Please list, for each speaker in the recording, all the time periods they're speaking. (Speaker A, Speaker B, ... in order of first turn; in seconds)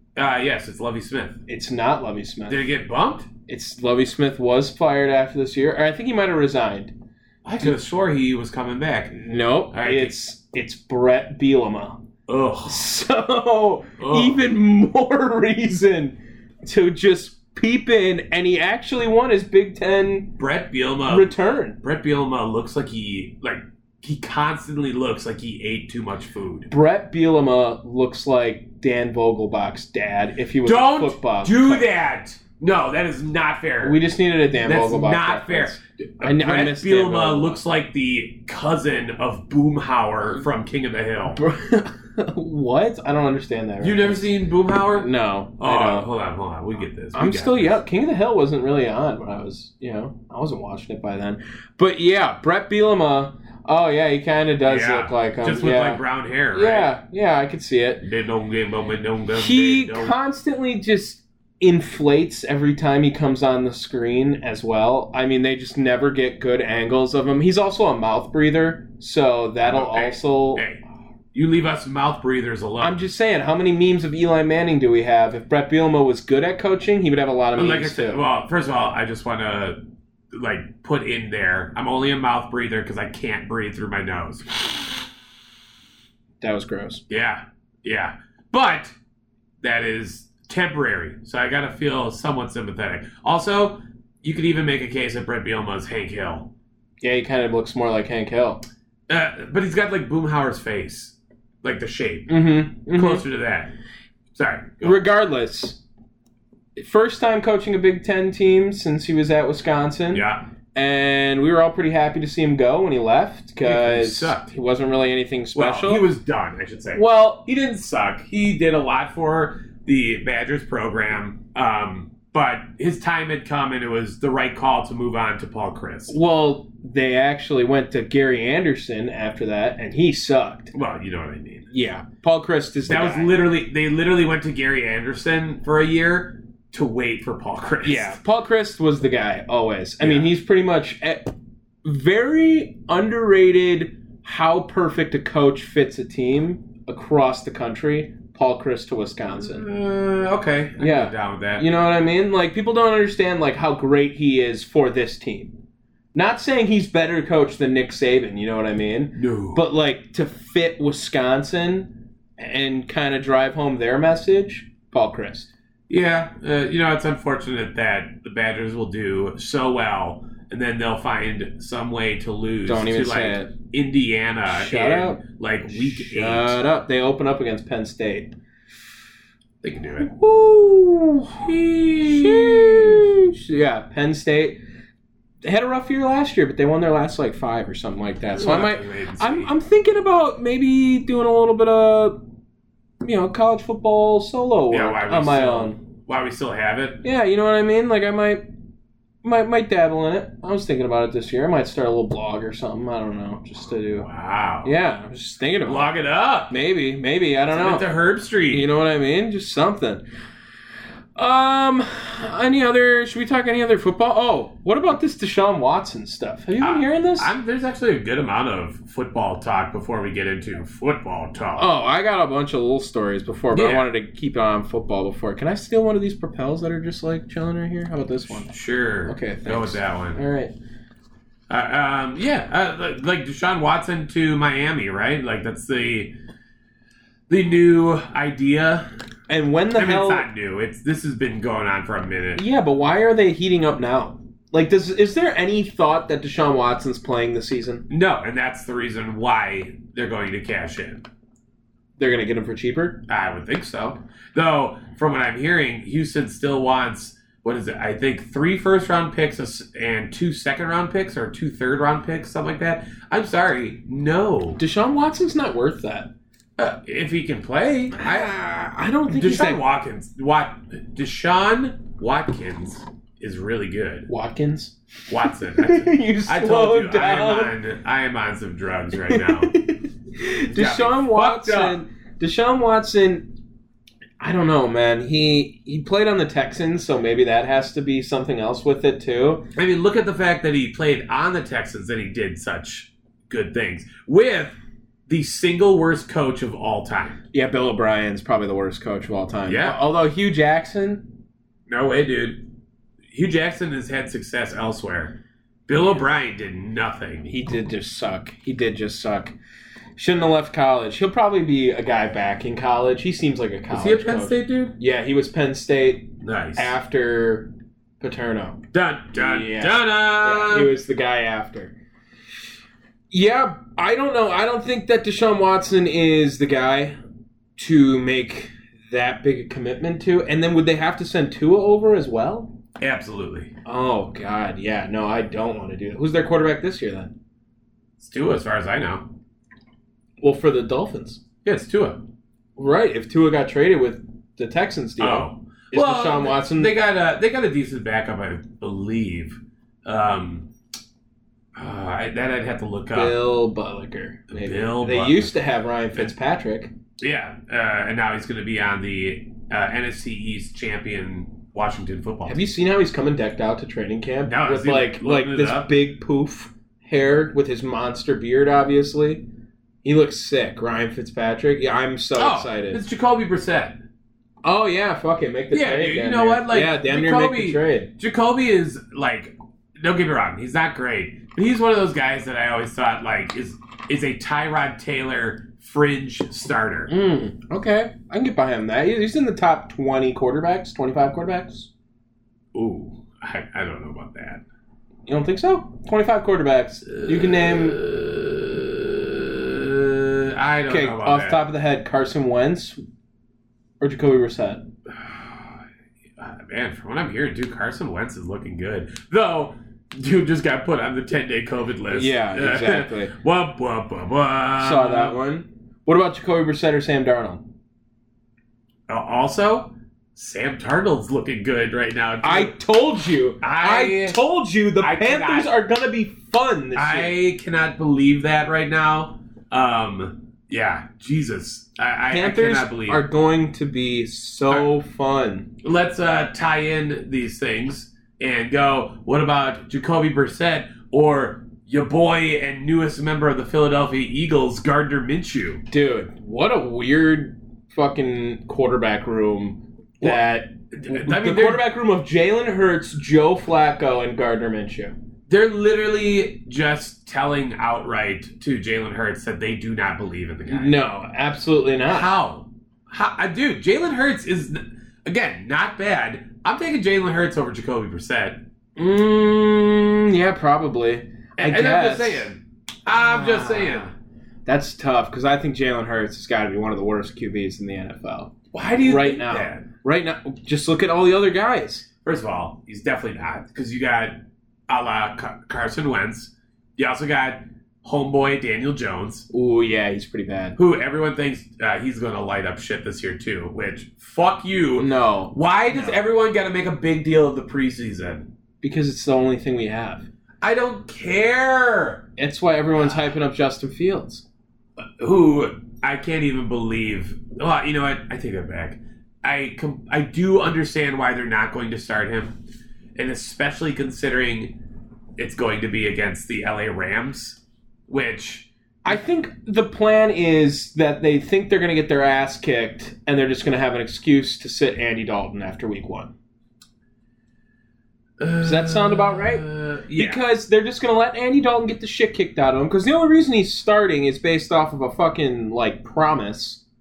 Speaker A: 0.1-1.4, 2.5-3.3, 7.4-9.2, 9.7-10.1, 12.3-12.8, 14.0-14.4, 20.4-26.7, 30.6-34.0, 34.6-41.4, 43.8-47.8, 54.6-56.9, 58.0-60.1, 69.6-70.8, 71.3-73.0, 77.5-79.8, 80.3-84.5, 87.1-88.9, 89.6-96.5, 99.1-102.4, 102.9-103.7, 104.3-105.0, 110.1-110.4, 113.6-114.5, 115.5-126.2, 130.7-131.7, 132.9-138.2, 140.0-140.3, 149.3-151.6, 159.2-159.6, 165.9-176.6, 179.6-180.1, 181.5-183.1, 188.3-189.5, 194.7-197.0, 204.0-204.7, 205.6-206.5, 207.5-208.7, 216.6-221.7, 223.5-223.9, 228.3-230.2, 231.5-236.1, 237.3-238.9, 239.7-242.4, 247.9-251.1, 253.1-264.6, 266.6-268.3, 269.1-274.1, 275.1-279.6, 280.5-281.8, 289.5-297.2, 299.4-299.8, 301.7-302.4, 303.1-307.3, 313.7-314.8, 316.2-316.7, 318.7-320.7, 332.8-333.5, 338.0-339.1, 341.4-342.0, 345.0-350.5, 351.6-353.2, 354.3-355.3, 357.0-362.4, 364.2-365.7, 372.2-373.8, 375.5-386.9, 392.5-394.4, 396.9-401.4, 404.9-405.6, 406.2-415.2, 418.9-422.6, 423.4-424.2, 424.8-425.5, 426.7-433.0, 435.6-445.6, 450.0-451.6, 455.3-460.8, 461.9-468.4, 471.4-473.9, 478.5-479.7, 482.0-489.3, 490.6-498.3, 500.4-502.1, 505.0-512.4, 513.0-514.6, 515.2-518.5, 528.2-530.2
Speaker B: 1.5-2.7, 3.5-6.9, 9.1-12.0, 12.7-20.4, 21.1-21.8, 26.7-31.9, 33.8-37.6, 41.3-44.3, 44.9-46.1, 47.1-58.0, 59.3-70.6, 72.8-78.2, 86.4-87.0, 97.0-98.6, 102.3-103.2, 104.8-105.8, 106.8-116.0, 116.9-117.4, 126.1-130.7, 131.7-133.4, 137.8-141.3, 141.8-149.6, 150.8-155.6, 156.1-165.5, 172.7-173.5, 174.5-178.3, 180.0-184.6, 185.4-192.2, 193.0-195.8, 197.0-198.4, 199.2-204.1, 204.6-205.9, 206.5-207.9, 208.5-210.0, 211.2-217.3, 221.6-228.5, 229.1-230.5, 239.3-240.3, 242.3-247.8, 252.0-253.0, 264.6-266.1, 267.9-269.6, 274.1-277.5, 279.0-283.3, 284.2-289.5, 297.3-301.1, 307.3-309.3, 309.9-321.7, 323.1-327.0, 327.6-332.5, 333.6-337.1, 340.2-341.2, 342.6-346.7, 352.9-356.7, 362.2-369.2, 369.8-372.8, 374.4-377.9, 386.9-391.7, 395.1-397.8, 400.7-402.8, 403.8-404.7, 411.9-413.1, 414.6-417.5, 422.2-427.1, 432.1-435.5, 445.7-454.9, 460.5-462.1, 468.8-472.3, 472.9-473.9, 474.4-481.9, 489.3-490.6, 494.8-496.0, 498.6-500.1, 502.2-504.2, 518.8-526.1, 528.4-536.6